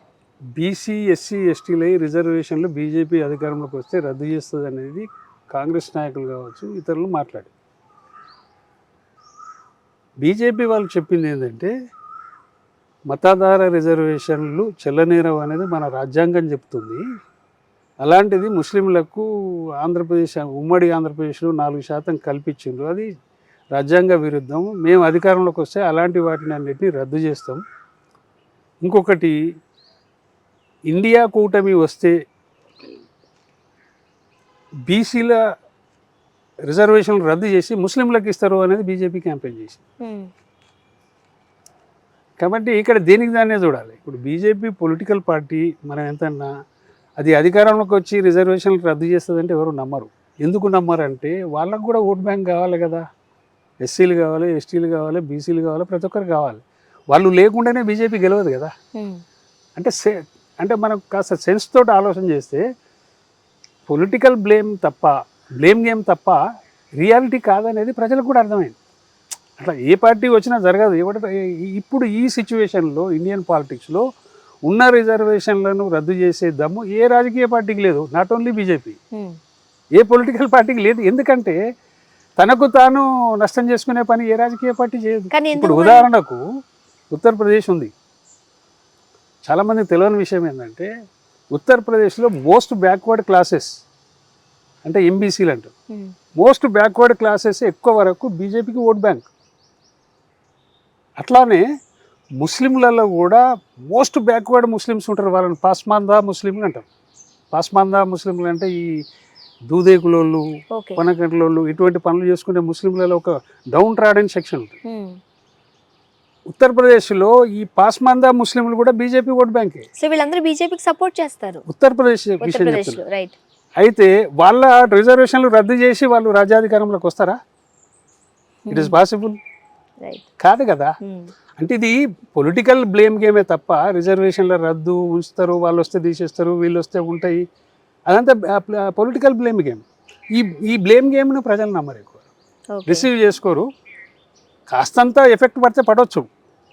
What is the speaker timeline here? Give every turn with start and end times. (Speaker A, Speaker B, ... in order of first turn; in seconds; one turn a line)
Speaker A: 0.6-7.5
Speaker A: 10.2-11.7
Speaker A: 13.1-17.0
Speaker A: 18.0-19.3
Speaker A: 19.8-23.1
Speaker A: 23.7-27.6
Speaker A: 28.8-29.4
Speaker A: 30.9-32.1
Speaker A: 34.9-35.4
Speaker A: 36.7-39.8
Speaker B: 40.0-40.3
Speaker A: 42.4-46.5
Speaker A: 47.2-53.0
Speaker A: 53.8-58.7
Speaker A: 59.8-62.6
Speaker A: 63.9-66.4
Speaker A: 67.0-68.8
Speaker A: 69.6-74.0
Speaker A: 74.7-79.0
Speaker A: 80.0-81.6
Speaker A: 82.4-86.4
Speaker B: 85.3-86.1
Speaker A: 87.1-87.9
Speaker A: 89.5-90.9
Speaker A: 91.5-93.7
Speaker A: 94.8-95.7
Speaker A: 96.4-99.3
Speaker A: 101.2-101.6
Speaker A: 102.4-106.8
Speaker A: 107.5-108.9
Speaker A: 109.7-110.4
Speaker B: 110.8-111.0
Speaker A: 111.0-114.8
Speaker B: 114.9-115.2
Speaker A: 116.5-119.9
Speaker B: 120.0-121.6
Speaker A: 121.7-123.0
Speaker B: 122.4-123.4
Speaker A: 123.8-127.4
Speaker B: 128.7-129.0
Speaker A: 128.7-129.4
Speaker A: 130.4-130.9
Speaker B: 131.0-131.3
Speaker A: 131.6-137.4
Speaker A: 138.1-139.8
Speaker A: 140.3-142.2
Speaker B: 142.7-143.1
Speaker A: 142.9-143.7
Speaker A: 144.7-146.2